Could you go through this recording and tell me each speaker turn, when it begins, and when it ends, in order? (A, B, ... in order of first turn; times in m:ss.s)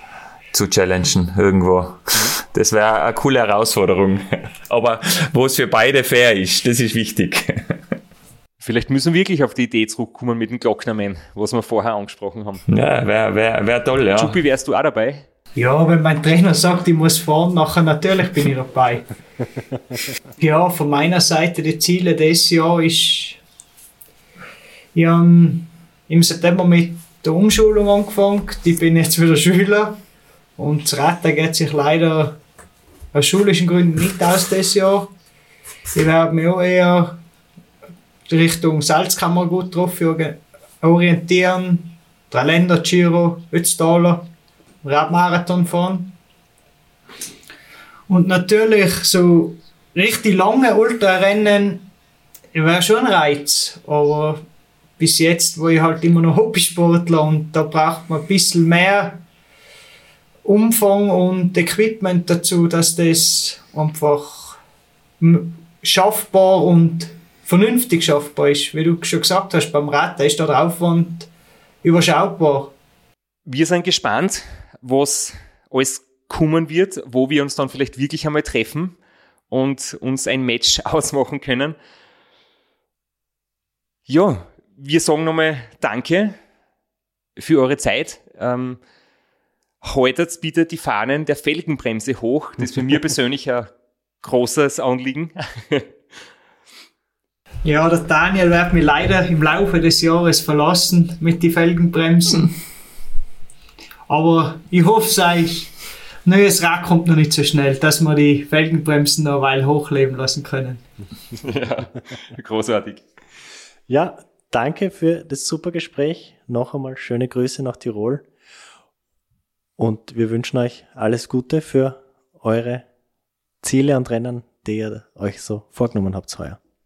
0:00.5-0:07.8 A
0:08.6-0:12.6 B
0:12.7-0:14.4 A
0:14.2-0:15.2 B
0:15.6-0:19.1 C
0:20.4-0:23.4 C
0:24.9-0:30.0 C
0:30.6-0:32.4 C
0:33.1-0:35.1 C
0:35.9-0:37.2 C
0:38.3-0:44.3 C
0:44.8-0:46.1 C
0:48.1-0:51.9 C
0:52.5-0:54.4 C
0:55.0-0:59.2 C
1:00.4-1:04.6 C
1:05.2-1:11.3 C
1:11.8-1:12.7 C
1:13.5-1:19.0 B
1:19.5-1:21.8 B
1:24.1-1:26.4 B
1:27.4-1:28.8 B
1:29.8-1:33.7 B
1:34.2-1:35.9 B
1:37.6-1:42.5 C
1:44.1-1:45.7 C
1:46.2-1:50.8 C
1:51.4-1:53.0 B
1:53.9-1:58.2 D
1:59.8-2:02.8 D
2:03.6-2:06.6 D